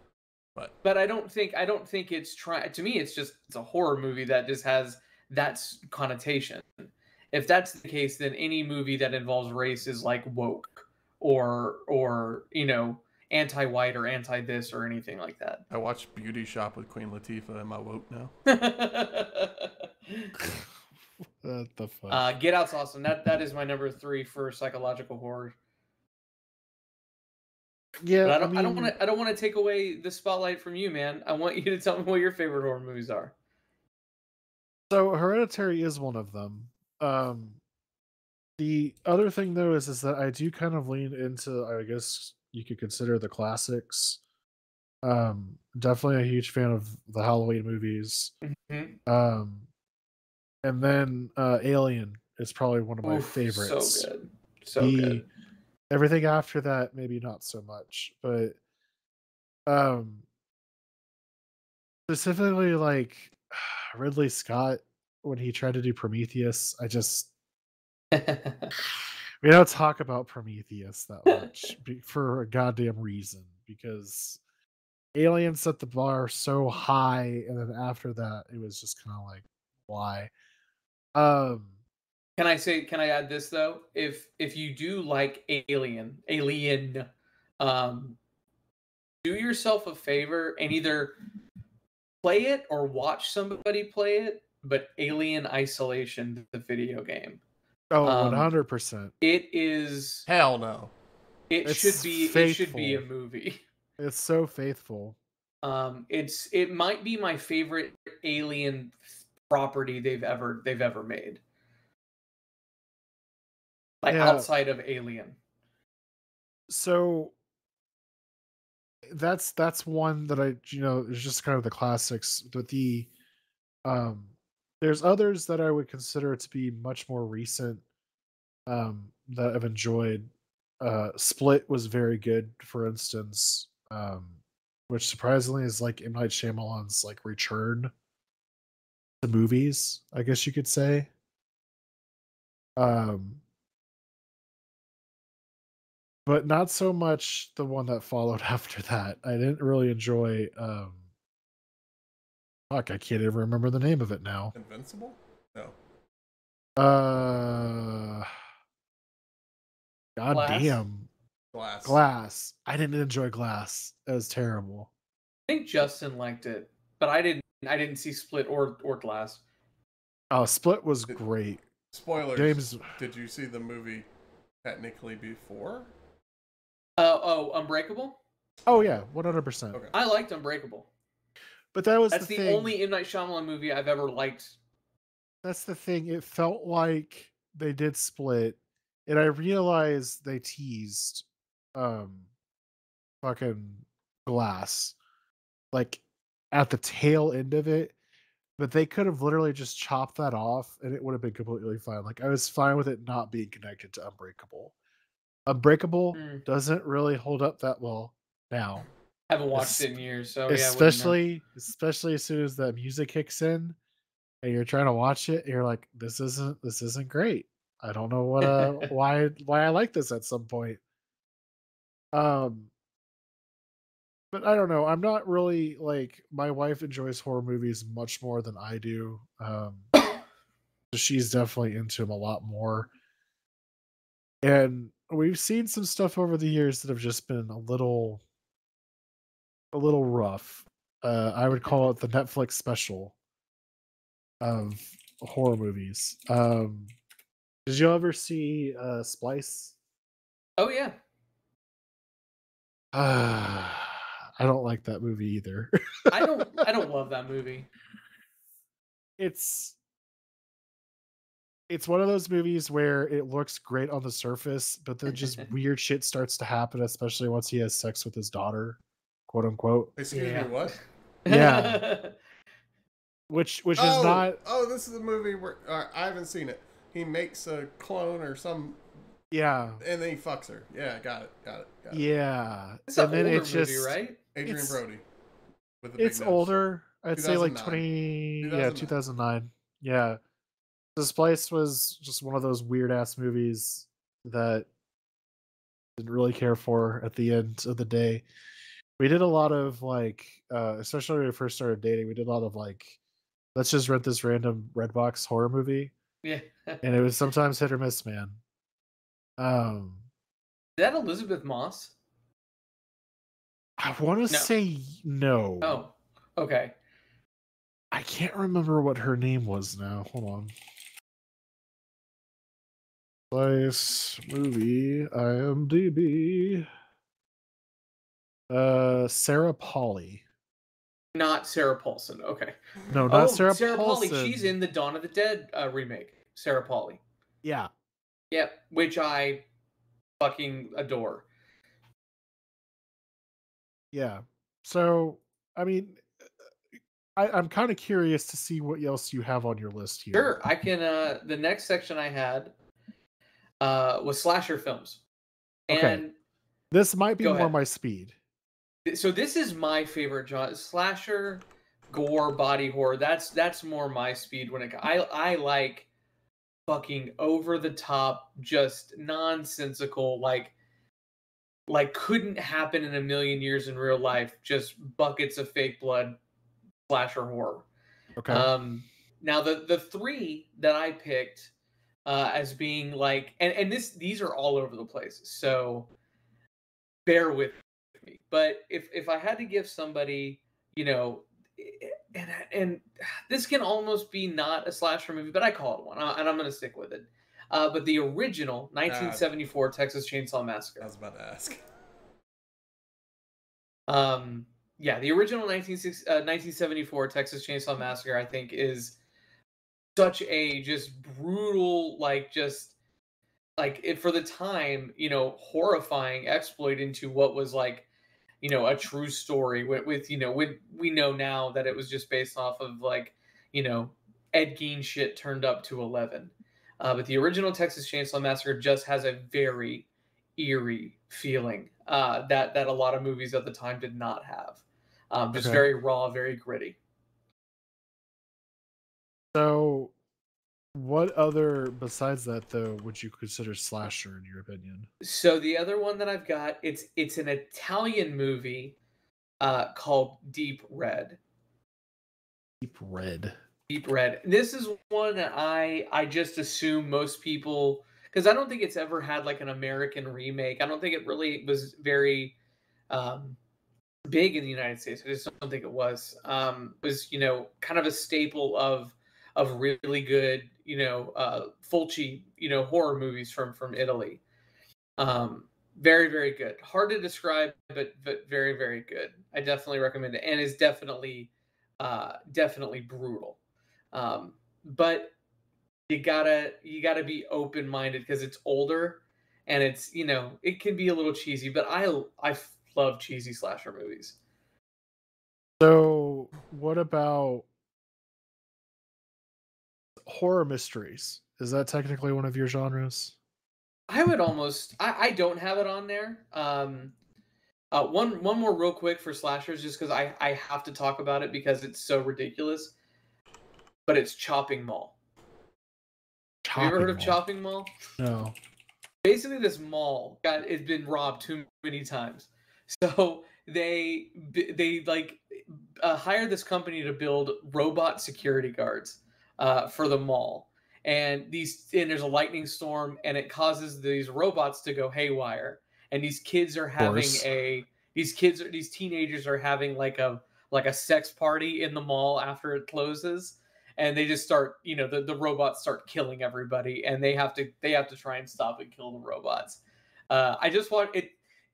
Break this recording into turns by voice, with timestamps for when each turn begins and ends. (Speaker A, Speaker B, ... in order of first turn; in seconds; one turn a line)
Speaker A: 0.8-15.6
Speaker B: 15.7-18.3
Speaker A: 18.5-20.4
Speaker C: 21.4-22.2
Speaker A: 22.1-25.6
Speaker C: 28.0-28.9
Speaker A: 28.2-33.3
Speaker C: 34.9-37.6
Speaker C: 38.6-44.2
Speaker C: 45.0-48.3
Speaker A: 48.4-49.0
Speaker C: 49.1-49.7
Speaker C: 50.6-54.1
Speaker A: 53.0-55.3
Speaker C: 54.8-55.2
Speaker C: 55.9-58.6
Speaker C: 59.7-60.2
Speaker C: 62.1-67.3
Speaker A: 68.1-68.7
Speaker C: 68.8-74.4
Speaker C: 75.2-80.3
Speaker C: 81.2-81.7
Speaker A: 82.4-87.1
Speaker A: 87.6-88.2
Speaker A: 89.2-91.2
Speaker A: 92.2-97.4
Speaker C: 97.9-99.1
Speaker A: 98.0-98.5
Speaker A: 99.2-100.3
Speaker B: 100.3-100.9
Speaker A: 101.5-103.6
Speaker C: 101.7-103.0
Speaker C: 104.0-105.2
Speaker A: 105.6-111.4
Speaker A: 114.0-115.4
Speaker C: 114.1-114.5
Speaker C: 116.7-117.3
Speaker C: 119.1-123.1
Speaker C: 123.8-127.8
Speaker C: 128.7-134.3
Speaker C: 134.9-137.9
Speaker C: 139.2-141.1
Speaker C: 142.8-143.4
Speaker C: 146.3-151.0
Speaker C: 152.7-154.5
Speaker B: 154.5-155.8
Speaker C: 156.8-158.3
Speaker C: 160.2-161.1
Speaker A: 160.3-160.8
Speaker B: 161.5-162.0
Speaker C: 161.8-164.9
Speaker A: 165.5-169.4
Speaker C: 170.3-171.6
Speaker B: 171.9-174.1
Speaker C: 172.4-172.9
Speaker B: 174.6-175.9
Speaker A: 177.0-178.2
Speaker C: 178.7-179.8
Speaker B: 178.7-179.0
Speaker A: 179.9-180.9
Speaker C: 181.7-182.8
Speaker A: 182.1-184.6
Speaker C: 185.4-192.3
Speaker C: 193.2-195.0
Speaker C: 195.7-197.9
Speaker C: 198.6-204.7
Speaker C: 205.5-208.9
Speaker A: 206.1-206.4
Speaker A: 209.3-211.2
Speaker C: 209.6-209.9
Speaker C: 210.5-213.8
Speaker C: 214.4-220.8
Speaker A: 218.4-218.9
Speaker C: 222.1-222.7
Speaker C: 224.3-229.9
Speaker C: 230.9-232.9
Speaker C: 234.4-238.2
Speaker C: 239.7-243.1
Speaker C: 244.4-246.9
Speaker C: 247.7-249.8
Speaker A: 250.6-251.0
Speaker C: 252.9-256.6
Speaker A: 256.1-257.7
Speaker C: 259.2-259.8
Speaker C: 261.7-270.5
Speaker B: 270.0-270.8
Speaker A: 270.1-270.5
Speaker A: 271.3-272.1
Speaker C: 271.3-271.9
Speaker C: 273.3-274.4
Speaker B: 273.8-278.8
Speaker C: 279.3-279.8
Speaker B: 279.8-282.1
Speaker C: 281.9-284.8
Speaker A: 282.9-284.2
Speaker B: 284.4-285.0
Speaker B: 285.8-286.5
Speaker C: 286.0-290.2
Speaker B: 287.2-287.9
Speaker B: 288.4-289.0
Speaker C: 291.0-294.7
Speaker C: 296.0-298.3
Speaker C: 299.0-303.0
Speaker C: 303.6-305.9
Speaker A: 306.2-306.8
Speaker C: 306.8-308.4
Speaker C: 309.4-310.0
Speaker A: 310.8-311.9
Speaker C: 313.8-315.8
Speaker A: 315.6-316.8
Speaker C: 317.9-320.5
Speaker C: 323.3-326.7
Speaker C: 328.5-330.2
Speaker A: 331.1-332.6
Speaker C: 332.9-334.5
Speaker A: 333.1-337.0
Speaker C: 337.4-337.7
Speaker A: 338.3-339.4
Speaker A: 340.2-341.2
Speaker C: 343.9-346.1
Speaker C: 347.2-350.4
Speaker A: 350.1-352.5
Speaker A: 353.6-355.0
Speaker A: 355.7-356.1
Speaker C: 355.7-356.0
Speaker C: 356.7-358.1
Speaker A: 357.2-357.5
Speaker A: 358.9-365.9
Speaker A: 366.7-370.5
Speaker A: 371.7-376.2
Speaker A: 376.9-377.7
Speaker C: 378.2-378.5
Speaker A: 378.3-381.5
Speaker A: 382.1-385.9
Speaker A: 387.1-400.9
Speaker B: 398.9-399.3
Speaker B: 400.8-401.6
Speaker A: 403.9-409.0
Speaker A: 410.0-412.7
Speaker A: 413.6-417.9
Speaker A: 418.4-436.8
Speaker C: 435.3-435.7
Speaker C: 439.3-439.9
Speaker C: 440.8-444.9
Speaker A: 445.0-448.8
Speaker A: 449.4-451.2
Speaker C: 452.6-453.4
Speaker A: 453.7-462.4
Speaker A: 462.9-463.4
Speaker A: 464.1-474.2
Speaker A: 475.0-483.4
Speaker A: 483.9-485.1
Speaker A: 485.9-494.1
Speaker C: 495.6-497.5
Speaker C: 500.0-503.2
Speaker A: 503.9-506.9
Speaker A: 507.7-512.7
Speaker A: 513.9-514.9
Speaker C: 516.5-517.2
Speaker A: 516.5-517.7
Speaker C: 518.0-518.4
Speaker A: 519.0-551.1
Speaker C: 536.8-537.3